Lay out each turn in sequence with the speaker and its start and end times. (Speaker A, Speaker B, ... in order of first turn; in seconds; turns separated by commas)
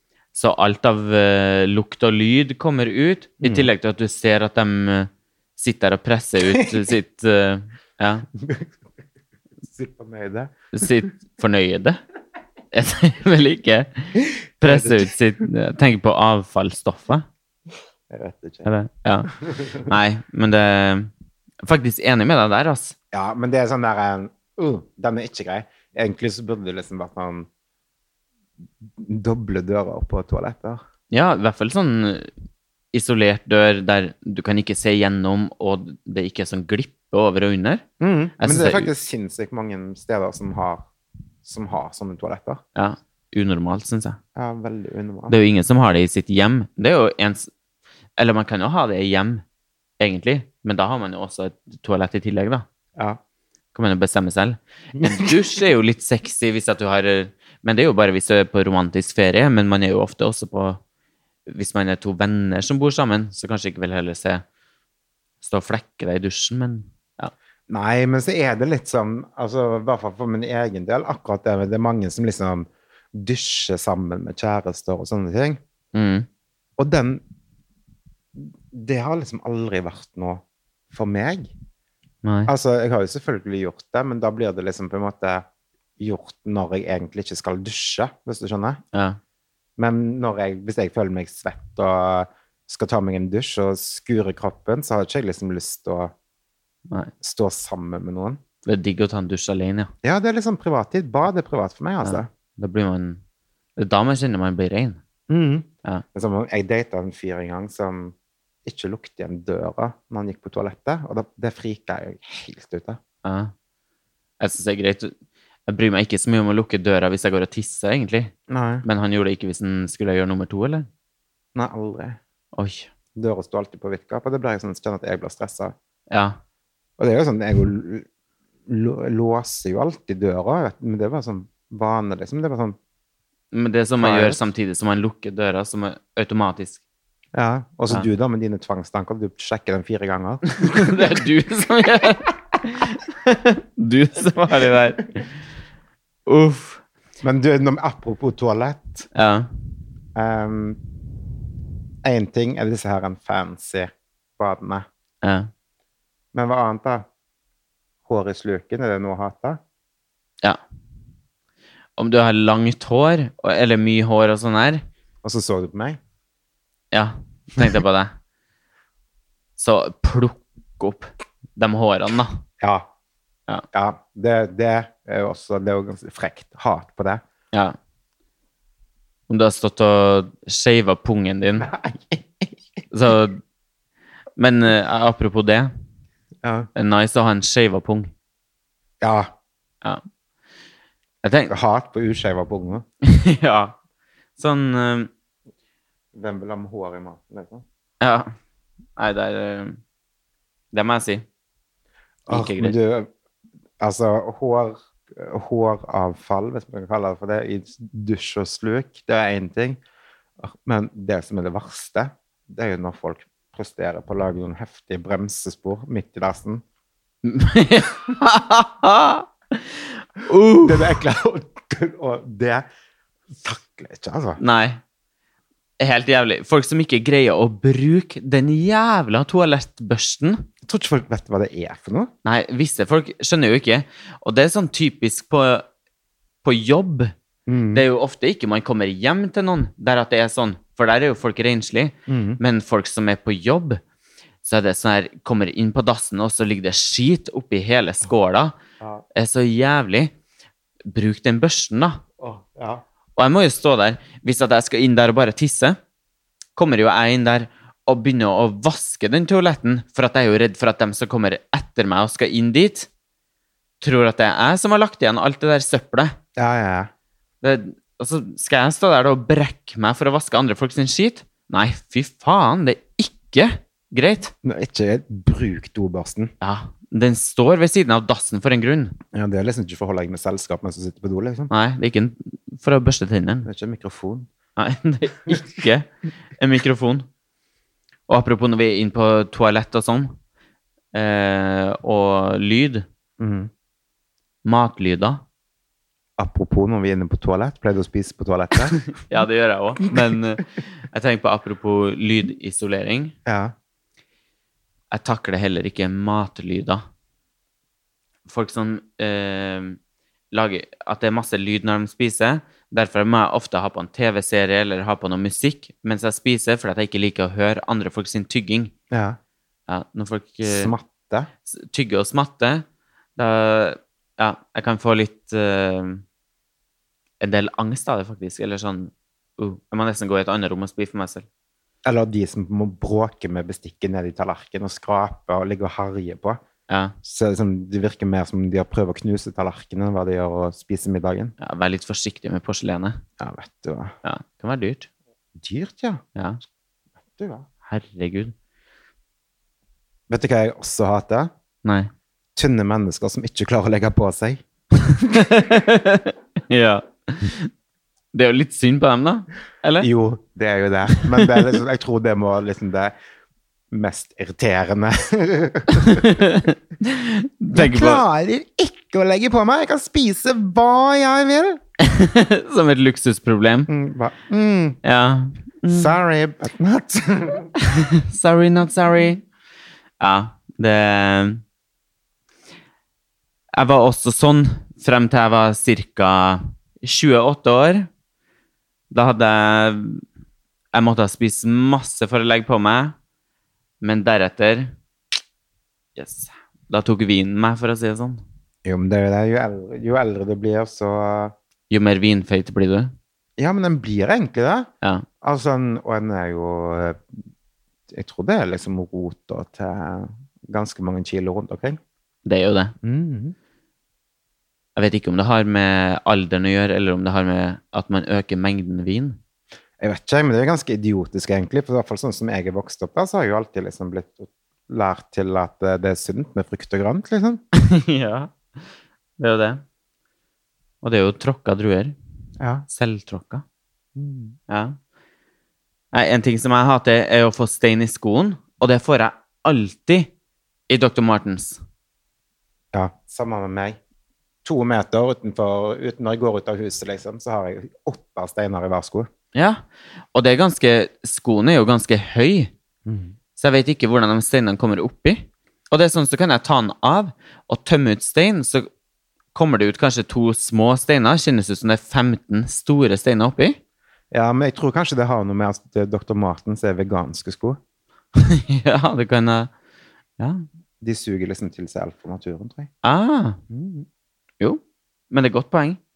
Speaker A: 0.3-8.3, Speaker B: 3.4-3.7, Speaker B: 8.4-8.7, Speaker B: 9.6-10.6, Speaker A: 10.7-12.0, Speaker A: 12.7-17.3, Speaker B: 14.2-15.1, Speaker B: 18.1-18.7, Speaker A: 18.6-21.1, Speaker B: 19.4-19.9, Speaker A: 21.6-22.9, Speaker B: 23.1-27.5, Speaker B: 28.8-30.8, Speaker A: 31.1-32.3, Speaker A: 32.9-37.8, Speaker B: 38.0-40.9, Speaker A: 38.4-38.9, Speaker B: 41.4-42.6, Speaker A: 42.8-44.2, Speaker B: 44.4-45.4, Speaker A: 45.3-47.5, Speaker A: 48.2-49.4, Speaker A: 50.0-52.6, Speaker A: 53.7-60.8, Speaker B: 55.0-55.3, Speaker A: 61.5-64.4, Speaker A: 65.4-67.3, Speaker B: 67.7-75.6, Speaker A: 75.9-76.3, Speaker B: 76.8-77.2, Speaker B: 78.4-81.5, Speaker A: 82.2-82.5, Speaker B: 82.5-85.5, Speaker B: 86.0-88.8, Speaker A: 88.9-89.2, Speaker B: 89.8-96.1, Speaker B: 97.2-98.4, Speaker A: 98.7-99.9, Speaker B: 100.0-102.3, Speaker A: 102.0-103.2, Speaker A: 103.8-105.0, Speaker B: 105.3-113.0, Speaker A: 113.2-113.5, Speaker A: 114.4-115.1, Speaker A: 115.7-120.9, Speaker B: 118.5-118.8, Speaker B: 121.5-122.2, Speaker A: 122.5-122.9, Speaker B: 123.2-125.7, Speaker A: 126.1-126.4, Speaker B: 127.0-128.1, Speaker B: 128.7-132.8, Speaker A: 133.5-136.8, Speaker B: 134.0-134.5, Speaker B: 137.3-141.2, Speaker A: 140.6-145.3, Speaker A: 146.3-146.8, Speaker B: 147.2-149.1, Speaker A: 149.1-149.5, Speaker B: 150.2-150.8, Speaker B: 152.0-154.9, Speaker A: 155.2-155.5, Speaker B: 156.3-157.1, Speaker B: 158.1-159.6, Speaker A: 162.0-164.8, Speaker B: 165.2-166.0, Speaker A: 166.9-168.1, Speaker A: 169.6-172.4, Speaker B: 172.6-172.9, Speaker B: 173.7-177.2, Speaker A: 179.3-181.7, Speaker B: 181.6-182.5, Speaker A: 182.9-183.4, Speaker A: 184.4-185.7, Speaker B: 186.4-186.7, Speaker A: 186.8-188.1, Speaker B: 189.0-189.3, Speaker A: 191.2-191.5, Speaker B: 191.5-192.8, Speaker A: 193.0-193.8, Speaker A: 194.4-195.1, Speaker B: 196.1-197.6, Speaker A: 198.0-198.3, Speaker A: 199.0-199.8, Speaker A: 200.7-201.2, Speaker B: 202.3-203.1, Speaker A: 202.3-202.8, Speaker B: 203.8-209.8, Speaker B: 210.4-216.6, Speaker A: 217.2-221.0, Speaker B: 220.6-222.7, Speaker B: 223.3-224.4, Speaker A: 224.4-224.8, Speaker A: 225.8-230.4, Speaker B: 230.7-232.1, Speaker A: 232.2-235.7, Speaker A: 236.4-237.1, Speaker B: 237.5-237.8, Speaker A: 237.7-243.8, Speaker B: 242.1-242.4, Speaker A: 244.4-248.6, Speaker A: 249.2-250.1, Speaker A: 250.9-252.0, Speaker B: 252.2-252.8, Speaker A: 253.2-255.8, Speaker A: 256.6-262.9, Speaker A: 263.8-266.1, Speaker B: 266.4-266.9, Speaker A: 267.4-274.3, Speaker B: 274.4-276.3, Speaker A: 276.4-279.0, Speaker B: 279.1-281.5, Speaker A: 281.5-283.5, Speaker B: 283.5-284.3, Speaker A: 284.6-287.1, Speaker A: 288.1-290.2, Speaker A: 290.9-292.9, Speaker B: 293.2-293.5, Speaker A: 294.4-295.2, Speaker B: 296.2-298.8, Speaker A: 298.9-303.1, Speaker B: 303.3-303.5, Speaker A: 304.9-306.9, Speaker A: 308.3-309.8, Speaker A: 310.3-318.7, Speaker B: 318.9-319.2, Speaker A: 319.7-320.7, Speaker B: 320.4-321.3, Speaker A: 321.5-322.6, Speaker A: 323.2-326.0, Speaker A: 327.2-331.3, Speaker B: 331.9-336.4, Speaker A: 336.7-336.9, Speaker B: 337.0-341.4, Speaker A: 341.4-343.0, Speaker B: 343.2-343.9, Speaker A: 344.0-344.9, Speaker B: 345.4-346.0, Speaker A: 346.2-346.4, Speaker B: 347.1-347.5, Speaker A: 347.7-348.3, Speaker B: 350.1-351.3, Speaker A: 351.6-351.9, Speaker B: 352.4-354.4, Speaker A: 354.9-357.5, Speaker A: 358.1-359.9, Speaker B: 359.8-362.9, Speaker A: 360.9-361.4, Speaker B: 363.7-366.2, Speaker A: 365.8-368.0, Speaker B: 367.5-371.6, Speaker A: 371.8-373.7, Speaker B: 373.7-374.8, Speaker A: 374.8-375.9, Speaker B: 375.7-377.5, Speaker A: 377.6-379.2, Speaker A: 380.0-381.4, Speaker A: 383.5-387.9, Speaker A: 388.9-390.0, Speaker A: 390.7-392.9, Speaker A: 393.8-394.7, Speaker A: 396.0-398.2, Speaker B: 398.6-401.3, Speaker A: 401.7-402.9, Speaker B: 403.4-404.7, Speaker B: 405.2-407.1, Speaker B: 407.9-411.8, Speaker A: 412.2-412.7, Speaker B: 412.8-413.4, Speaker A: 414.8-419.2, Speaker B: 419.8-427.4, Speaker A: 427.5-428.6, Speaker A: 429.2-429.6, Speaker A: 430.8-431.9, Speaker B: 432.4-432.7, Speaker A: 432.7-433.4, Speaker B: 434.0-434.4, Speaker A: 434.5-434.8, Speaker A: 435.9-440.1, Speaker A: 440.7-441.6, Speaker B: 442.7-443.8, Speaker B: 444.4-449.1, Speaker A: 449.3-449.6, Speaker A: 450.1-452.5, Speaker B: 452.9-453.1, Speaker A: 453.4-458.7, Speaker A: 459.3-463.6, Speaker B: 464.1-467.6, Speaker A: 468.1-469.5, Speaker A: 470.2-470.4, Speaker B: 470.8-472.7, Speaker A: 472.8-473.4, Speaker B: 473.5-473.9, Speaker A: 474.4-475.8